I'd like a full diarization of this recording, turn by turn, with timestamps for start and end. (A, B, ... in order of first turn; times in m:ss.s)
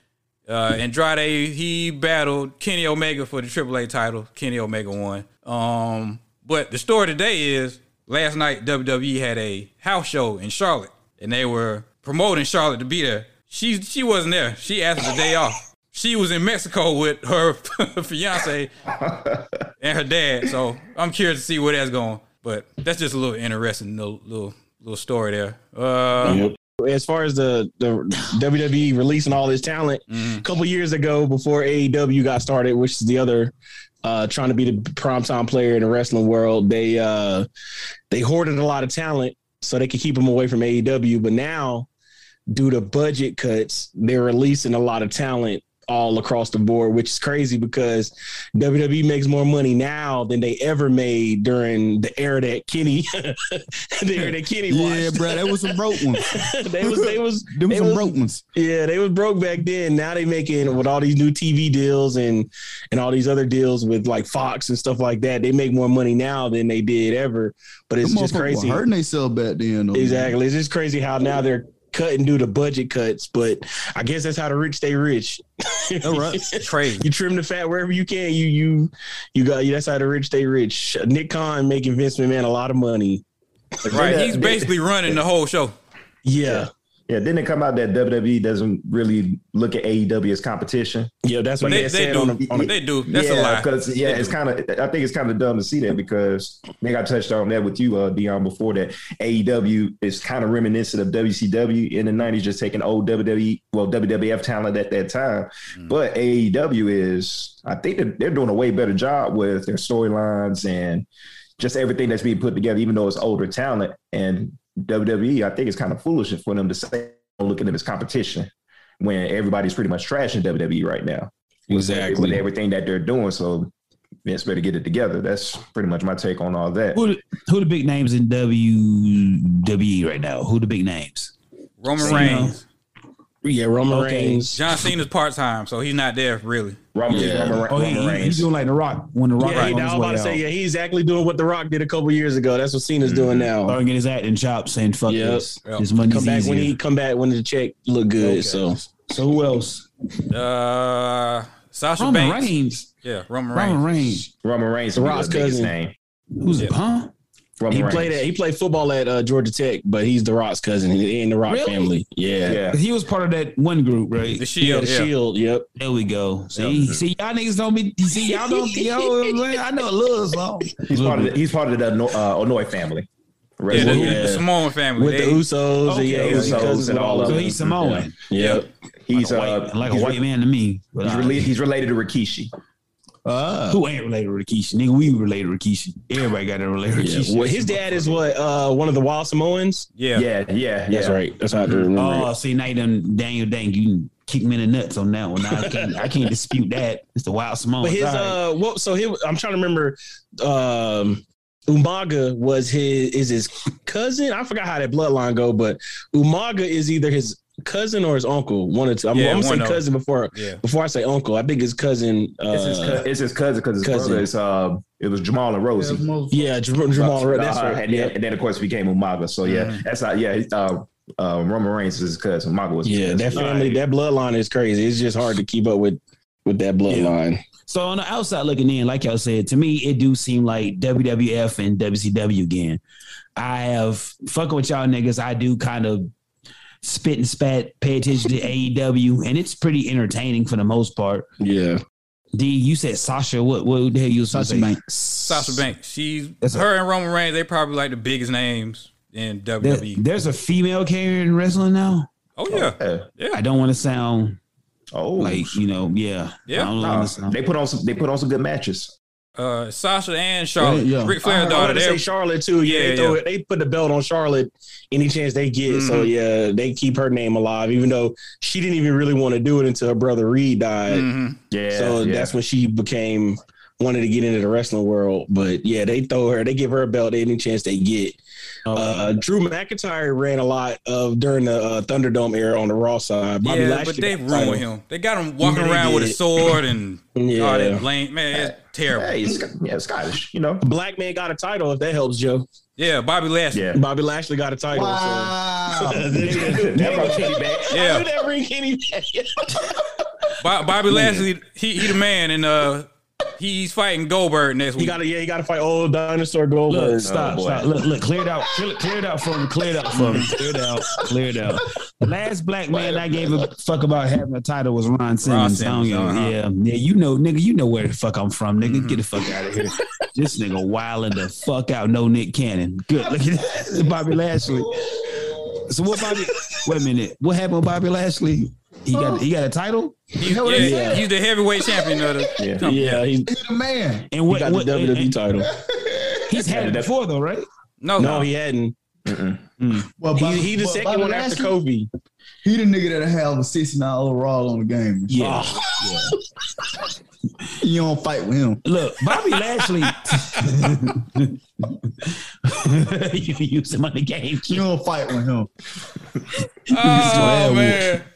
0:00.5-0:18.7 A
0:18.9-0:19.6 B
0:19.8-0:26.5 A
0:26.2-0:26.5 B
0:26.2-0:37.5 C
0:30.1-0:30.4 A
0:38.1-0:41.9 C
0:42.5-1:08.8 C
0:54.2-0:58.4 D
1:08.0-1:10.4 D
1:09.9-1:23.2 C
1:16.0-1:16.4 D
1:16.5-1:17.1 A
1:23.9-1:25.2 B
1:23.9-1:25.8 A
1:23.9-1:24.4 D
1:26.2-1:26.7 C
1:26.5-1:31.1 B
1:31.2-1:32.8 C
1:31.6-1:34.4 A
1:33.1-1:51.1 B
1:51.6-2:03.7 B
2:01.7-2:02.4 C
2:04.2-2:07.0 B
2:06.9-2:11.3 E
2:11.8-2:12.6 A
2:12.0-2:12.6 E
2:12.0-2:12.3 B
2:13.4-2:14.6 C
2:13.9-2:14.5 E
2:14.6-2:16.8 A
2:17.0-2:18.5 B
2:17.1-2:17.7 C
2:17.7-2:20.4 E
2:19.4-2:23.8 C
2:19.5-2:19.8 A
2:23.0-2:23.5 B
2:23.7-2:26.8 E
2:25.1-2:28.8 C
2:28.2-2:29.9 E
2:30.3-2:32.5 A
2:32.0-2:32.9 E
2:33.0-2:34.1 A
2:33.5-2:34.3 E
2:34.4-2:35.9 B
2:34.9-2:35.7 C
2:36.4-2:37.1 E
2:37.6-2:38.3 B
2:37.7-2:42.6 C
2:41.5-2:41.9 E
2:42.4-2:42.8 B
2:42.7-2:44.4 E
2:44.4-2:45.1 A
2:44.6-2:45.7 C
2:45.8-2:50.7 E
2:46.6-2:47.0 B
2:48.3-2:49.4 C
2:50.9-2:51.4 D
2:50.9-2:53.1 B
2:53.6-2:54.4 B
2:53.7-2:55.5 A
2:53.7-2:58.7 C
2:55.8-2:58.2 E
2:56.1-2:57.6 B
2:58.3-2:58.6 A
2:59.1-3:00.2 B
2:59.1-3:01.5 E
3:01.0-3:02.5 B
3:03.2-3:03.8 D
3:03.7-3:08.2 E
3:07.0-3:09.9 C
3:10.0-3:10.3 A
3:10.1-3:11.9 B
3:10.9-3:12.3 C
3:12.0-3:18.4 E
3:15.4-3:16.3 C
3:17.8-3:33.1 C
3:29.1-3:29.8 A
3:32.5-3:36.1 B
3:33.8-3:34.3 C
3:35.8-3:36.6 D
3:36.3-3:38.2 C
3:37.0-3:43.8 B
3:39.4-3:39.8 A
3:42.8-3:47.4 C
3:47.7-3:52.8 E
3:53.4-3:56.1 E
3:56.8-4:01.3 E
4:01.4-4:01.8 C
4:02.3-4:04.8 E
4:04.3-4:05.6 D
4:05.2-4:10.0 A
4:06.4-4:06.7 E
4:09.6-4:12.1 E
4:12.4-4:13.4 A
4:12.5-4:13.1 B
4:13.3-4:14.4 E
4:14.9-4:15.6 B
4:15.2-4:17.4 E
4:16.8-4:18.9 B
4:19.4-4:22.0 A
4:20.6-4:21.2 D
4:21.2-4:31.1 C
4:22.6-4:23.2 A
4:25.7-4:26.1 A
4:30.9-4:31.4 A
4:31.5-4:32.4 B
4:31.7-4:44.6 C
4:38.7-4:39.2 E
4:43.4-4:49.3 A
4:45.4-4:46.2 C
4:47.2-4:47.8 C
4:48.3-4:50.6 B
4:50.6-4:52.5 C
4:52.8-4:53.7 A
4:53.5-4:53.8 B
4:53.7-4:59.8 C
4:54.7-4:56.1 D
4:56.2-4:57.4 E
4:56.2-4:57.8 B
4:57.7-4:58.1 A
5:00.4-5:05.0 A
5:04.8-5:07.1 C
5:06.7-5:30.0 E
5:07.1-5:07.7 B
5:09.9-5:10.3 A
5:12.7-5:13.0 B
5:15.2-5:16.4 A
5:18.6-5:19.0 A
5:28.9-5:29.2 D
5:30.2-5:33.1 A
5:30.2-5:31.0 D
5:30.5-5:31.0 C
5:31.7-5:32.3 D
5:32.4-5:32.7 B
5:32.6-5:33.3 C
5:33.3-5:34.1 D
5:34.1-5:35.2 E
5:34.3-5:35.5 C
5:35.4-5:36.4 D
5:36.3-5:37.5 E
5:36.4-5:36.9 B
5:37.8-5:38.3 A
5:38.0-5:38.7 C
5:39.1-5:39.4 B
5:39.6-5:39.9 E
5:40.0-5:41.5 D
5:40.2-5:41.9 C
5:42.4-5:46.1 D
5:45.1-5:45.6 E
5:45.2-5:46.0 C
5:47.6-5:48.6 D
5:48.6-5:54.7 E
5:49.3-5:50.4 A
5:54.5-5:55.5 D
5:56.7-5:58.0 A
5:56.7-5:58.0 D
5:56.9-5:57.4 E